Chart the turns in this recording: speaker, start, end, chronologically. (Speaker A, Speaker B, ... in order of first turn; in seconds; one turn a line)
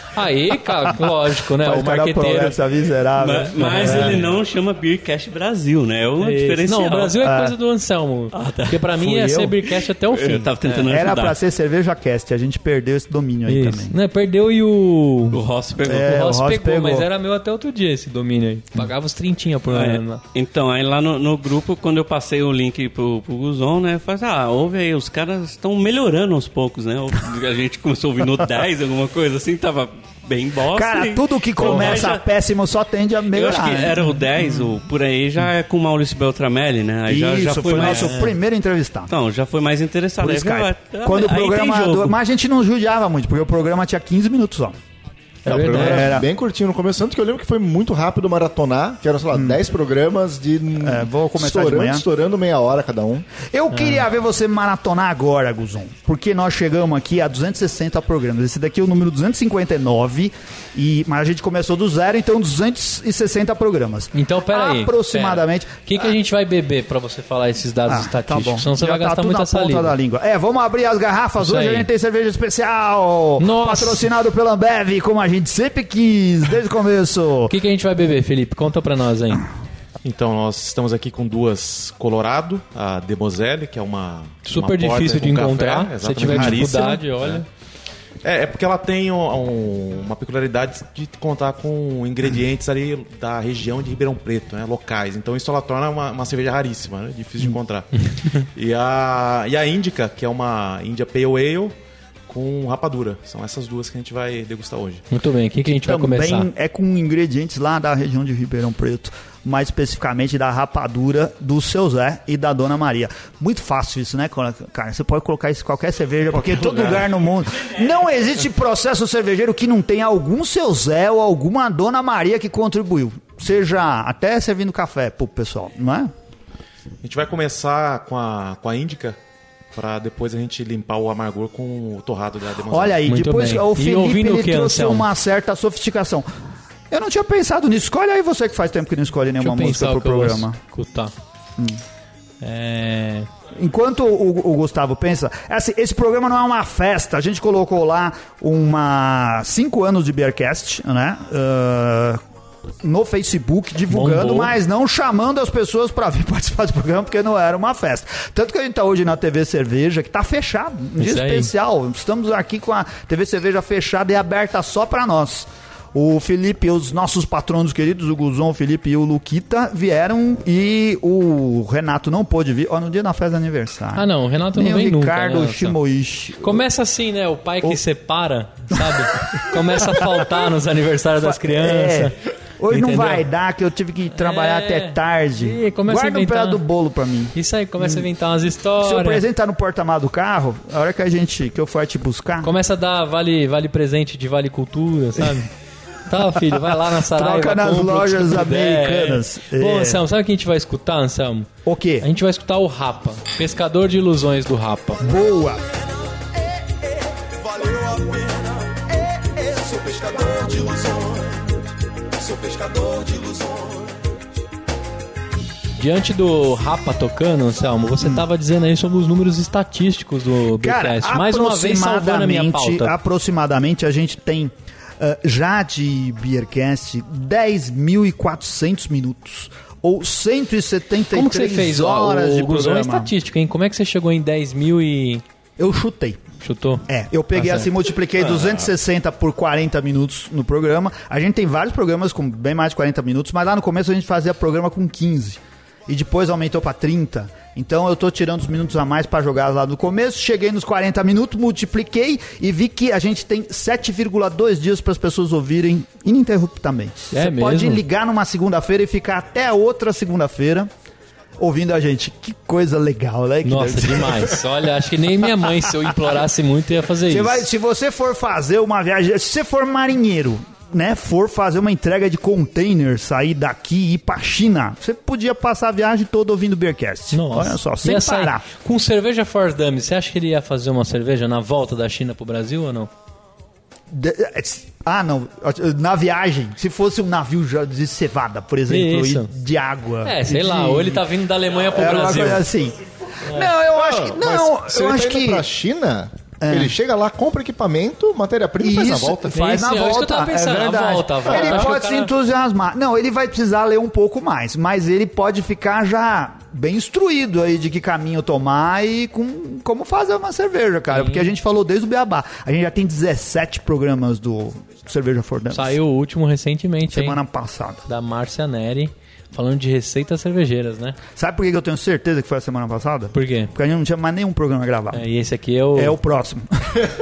Speaker A: 0.1-2.6
Speaker B: 1.5-4.3
Speaker C: 3.2-7.2
Speaker A: 3.6-4.3
Speaker A: 6.2-10.8
Speaker B: 7.2-7.5
Speaker C: 8.3-8.9
Speaker B: 9.0-9.6
Speaker C: 10.1-11.4
Speaker B: 10.8-13.9
Speaker A: 13.5-15.4
Speaker C: 15.3-16.1
Speaker B: 15.8-17.1
Speaker A: 15.9-20.2
Speaker C: 19.7-32.2
Speaker B: 30.7-34.7
Speaker C: 33.3-38.3
Speaker B: 37.1-39.1
Speaker A: 37.8-38.3
Speaker C: 39.1-42.2
Speaker B: 40.2-44.8
Speaker A: 45.5-46.1
Speaker D: 45.5-53.3
Speaker B: 45.6-46.3
Speaker B: 49.3-49.6
Speaker B: 50.8-52.1
Speaker B: 53.4-66.1
Speaker A: 53.7-54.0
Speaker A: 64.1-70.0
Speaker B: 67.9-77.5
Speaker A: 71.4-71.9
Speaker A: 73.4-74.1
Speaker A: 77.5-79.5
Speaker E: 80.0-87.4
Speaker A: 84.5-87.5
Speaker B: 86.3-86.6
Speaker E: 88.2-97.9
Speaker E: 98.5-101.8
Speaker E: 102.3-105.0
Speaker A: 105.1-106.5
Speaker B: 105.7-126.1
Speaker E: 116.6-117.1
Speaker E: 127.0-129.2
Speaker E: 129.7-133.0
Speaker B: 132.7-136.3
Speaker A: 133.1-135.1
Speaker B: 136.9-140.6
Speaker A: 139.4-141.1
Speaker A: 142.4-143.3
Speaker B: 143.6-152.2
Speaker B: 152.8-176.6
Speaker A: 153.9-154.5
Speaker A: 161.0-161.5
Speaker A: 173.9-175.8
Speaker A: 176.4-182.2
Speaker B: 179.5-180.2
Speaker B: 181.2-188.1
Speaker A: 182.7-183.3
Speaker A: 184.1-186.6
Speaker A: 187.3-189.2
Speaker B: 188.8-192.5
Speaker A: 192.4-195.5
Speaker A: 196.1-201.5
Speaker B: 196.4-200.0
Speaker B: 201.7-202.1
Speaker A: 202.0-205.0
Speaker B: 205.0-205.6
Speaker F: 205.4-214.2
Speaker A: 215.8-222.9
Speaker B: 220.6-233.1
Speaker A: 231.1-235.2
Speaker B: 235.6-236.2
Speaker A: 236.4-237.7
Speaker B: 236.9-260.7
Speaker A: 257.1-257.8
Speaker B: 261.4-264.4
Speaker A: 263.4-267.5
Speaker B: 267.1-278.4
Speaker A: 277.1-282.9
Speaker B: 283.9-291.1
Speaker A: 288.7-289.3
Speaker A: 290.0-292.5
Speaker B: 291.6-295.5
Speaker A: 293.2-293.5
Speaker D: 293.7-299.3
Speaker B: 296.4-296.7
Speaker B: 298.6-315.8
Speaker A: 299.3-302.1
Speaker D: 301.3-301.7
Speaker A: 310.9-311.3
Speaker A: 315.5-317.2
Speaker B: 316.9-317.9
Speaker A: 317.9-321.0
Speaker B: 321.2-325.0
Speaker A: 323.1-323.5
Speaker A: 324.9-326.0
Speaker B: 325.7-326.9